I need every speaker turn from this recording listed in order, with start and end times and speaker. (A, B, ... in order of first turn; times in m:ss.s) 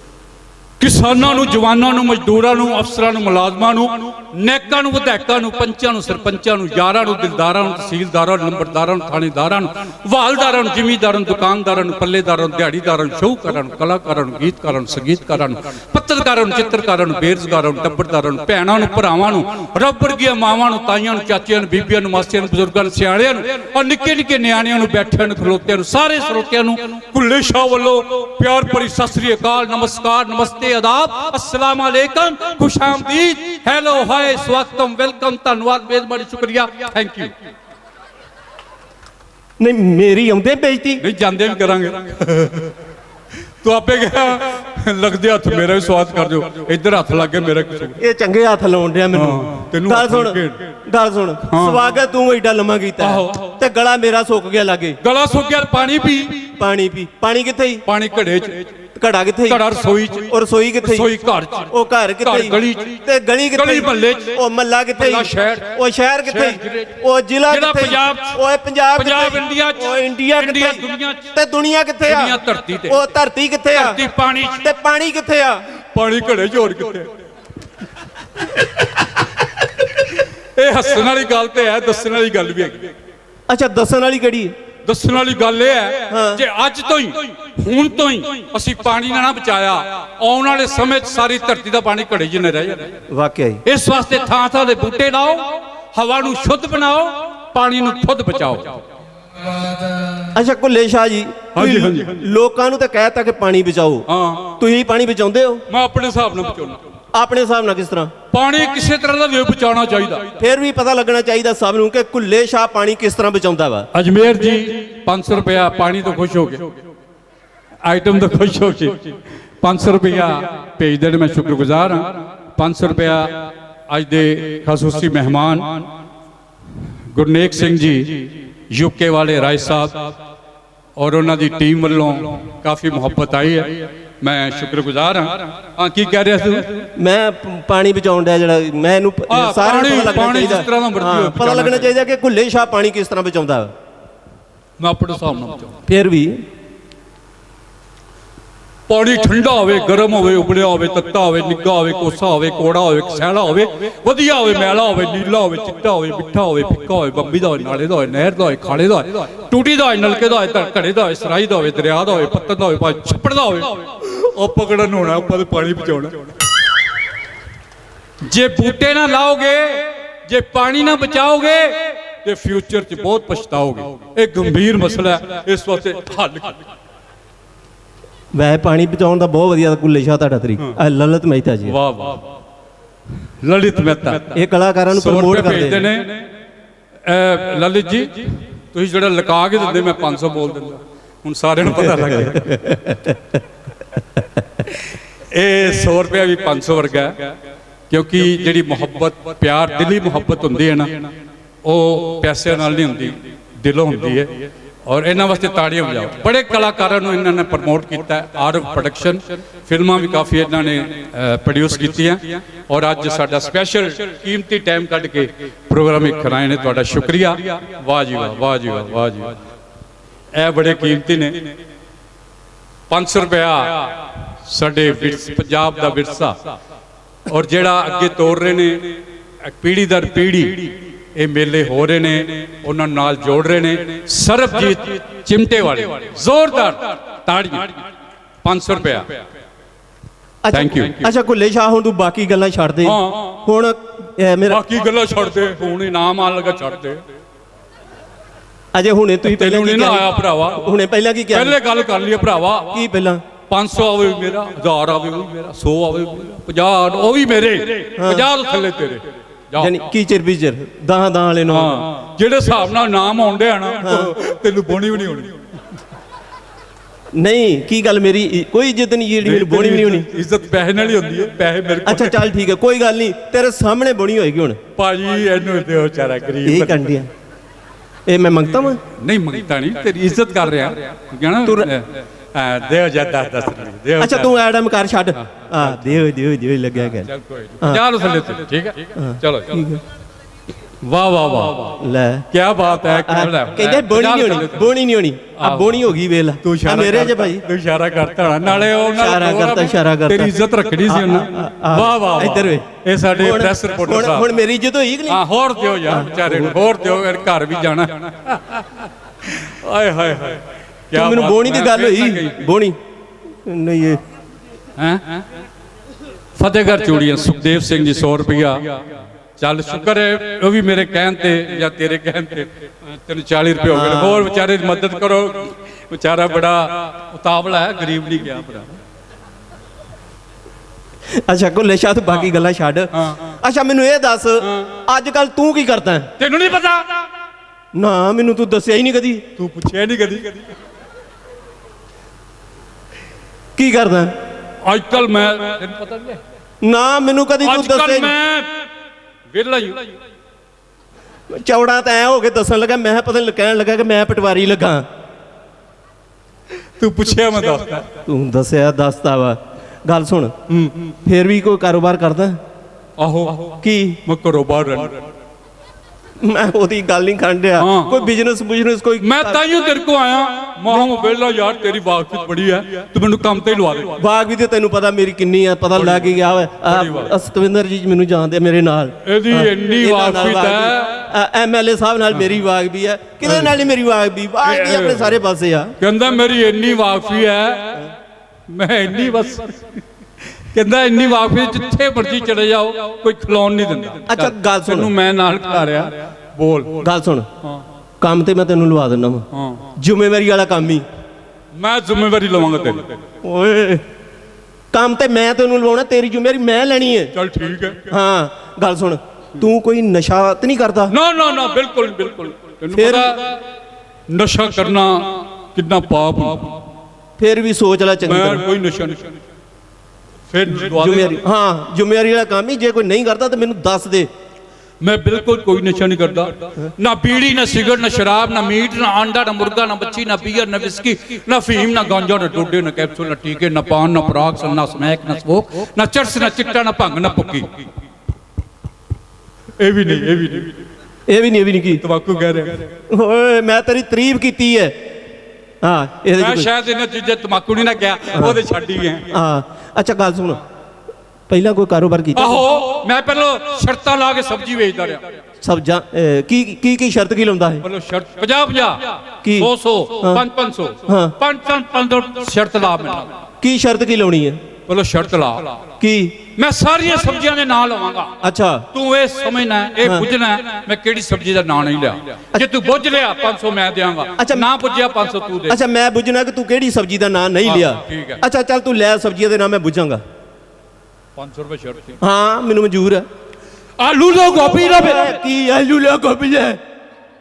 0:00.8-0:37.3 A
0:39.6-0:41.0 B
0:41.0-0:42.7 A
0:43.6-0:48.0 A
0:48.0-0:55.0 B
0:49.1-0:50.7 A
0:51.5-0:51.8 A
0:53.0-0:53.5 A
0:55.0-0:56.5 A
0:56.6-0:57.8 B
0:57.8-0:58.7 A
0:58.9-0:59.6 B
0:59.4-1:04.4 A
1:00.3-1:01.1 B
1:01.7-1:14.0 B
1:05.0-1:08.4 A
1:08.9-1:11.3 A
1:12.0-1:13.0 A
1:13.7-1:14.6 A
1:14.6-1:15.6 B
1:15.9-1:17.1 A
1:18.4-1:22.9 A
1:23.5-1:24.5 B
1:24.8-1:32.9 A
1:26.1-1:26.4 B
1:33.1-1:33.6 B
1:33.6-1:38.8 A
1:40.3-1:44.0 B
1:41.5-1:42.2 A
1:44.1-1:44.6 A
1:44.6-1:45.6 B
1:45.7-1:46.8 A
1:47.1-1:48.1 B
1:48.3-1:50.4 A
1:50.4-1:53.9 B
1:53.9-1:56.8 A
1:57.8-2:05.9 A
2:07.1-2:10.1 A
2:11.0-2:16.9 A
2:17.0-2:23.7 B
2:19.3-2:21.9 A
2:24.8-2:25.8 A
2:25.9-2:26.4 B
2:28.9-2:46.3 A
2:48.2-2:56.6 A
2:58.3-3:01.7 B
3:01.6-3:02.3 A
3:03.4-3:04.4 A
3:04.3-3:05.9 B
3:04.9-3:06.3 A
3:07.0-3:13.0 A
3:11.7-3:13.1 B
3:14.6-3:17.3 A
3:17.9-3:21.1 A
3:21.6-3:39.4 A
3:40.3-3:41.5 A
3:42.9-3:46.5 A
3:47.3-3:57.8 A
3:58.4-3:59.2 A
4:00.4-4:04.6 B
4:00.5-4:01.1 A
4:02.8-4:03.4 A
4:04.5-4:07.0 A
4:08.7-4:11.6 B
4:09.2-4:10.7 A
4:11.3-4:12.9 A
4:12.7-4:13.2 B
4:13.5-4:19.8 A
4:18.0-4:18.3 B
4:19.6-4:21.8 B
4:21.5-4:25.4 A
4:23.8-4:24.2 B
4:27.2-4:30.0 B
4:29.2-4:32.2 A
4:31.8-4:34.6 B
4:34.8-4:36.8 A
4:36.4-4:37.1 B
4:38.1-4:38.8 B
4:39.0-4:44.3 A
4:41.4-4:41.7 B
4:44.0-4:47.1 B
4:47.0-4:49.6 A
4:49.0-4:49.8 B
4:50.8-4:51.8 A
4:51.8-4:52.3 B
4:52.3-4:54.7 A
4:52.9-4:57.4 B
4:55.4-4:55.8 A
4:56.4-5:04.3 A
4:58.9-5:02.6 B
5:03.2-5:05.2 B
5:05.1-5:12.4 A
5:05.9-5:06.5 B
5:10.9-5:12.8 B
5:13.4-5:14.0 B
5:14.8-5:15.2 A
5:16.3-5:18.9 A
5:19.4-5:28.8 A
5:23.7-5:24.3 B
5:31.2-5:36.1 B
5:33.0-5:33.2 A
5:34.4-5:34.7 A
5:36.2-5:37.1 A
5:37.7-5:39.2 B
5:39.4-5:40.5 A
5:43.6-5:44.1 B
5:44.6-5:46.2 A
5:46.6-5:48.1 B
5:47.4-5:48.7 A
5:49.3-5:50.0 A
5:51.3-5:54.8 B
5:56.8-5:57.9 A
5:58.0-6:00.3 B
6:00.5-6:00.9 A
6:01.0-6:02.4 B
6:03.0-6:05.0 A
6:03.6-6:04.0 B
6:06.2-6:09.4 B
6:07.6-6:08.1 A
6:09.0-6:14.0 A
6:14.0-6:25.7 B
6:15.7-6:17.1 A
6:19.0-6:21.1 A
6:23.2-6:23.5 A
6:24.4-6:25.2 A
6:25.8-6:27.9 A
6:28.5-6:29.7 A
6:30.4-6:36.8 A
6:34.0-6:34.9 B
6:36.8-6:37.3 B
6:38.0-6:40.8 B
6:39.3-6:39.7 A
6:41.5-6:43.0 A
6:43.2-6:43.8 B
6:44.7-6:47.1 B
6:47.1-6:47.9 A
6:47.9-6:50.9 B
6:50.9-6:53.4 A
6:52.7-6:53.2 B
6:54.1-6:56.6 A
6:57.2-6:58.4 B
6:58.0-6:59.2 A
7:00.3-7:01.2 A
7:00.4-7:04.1 B
7:04.8-7:17.7 A
7:19.6-7:20.6 A
7:21.1-7:21.8 B
7:21.8-7:22.7 A
7:22.9-7:24.8 B
7:25.6-7:26.5 B
7:26.2-7:29.1 A
7:28.1-7:28.4 B
7:29.1-7:30.4 B
7:31.3-7:32.4 B
7:32.2-7:35.0 A
7:35.4-7:37.6 B
7:37.6-7:43.2 A
7:39.2-7:40.2 B
7:40.8-7:41.1 B
7:43.4-7:44.4 B
7:44.7-7:45.6 A
7:45.8-7:46.2 B
7:46.4-7:48.1 A
7:48.2-7:48.7 B
7:48.7-7:55.6 A
7:49.8-7:50.1 B
7:54.2-7:54.5 B
7:55.5-8:00.0 B
7:57.4-7:58.2 A
8:01.2-8:02.0 A
8:02.0-8:03.0 B
8:03.8-8:05.2 A
8:04.6-8:06.6 B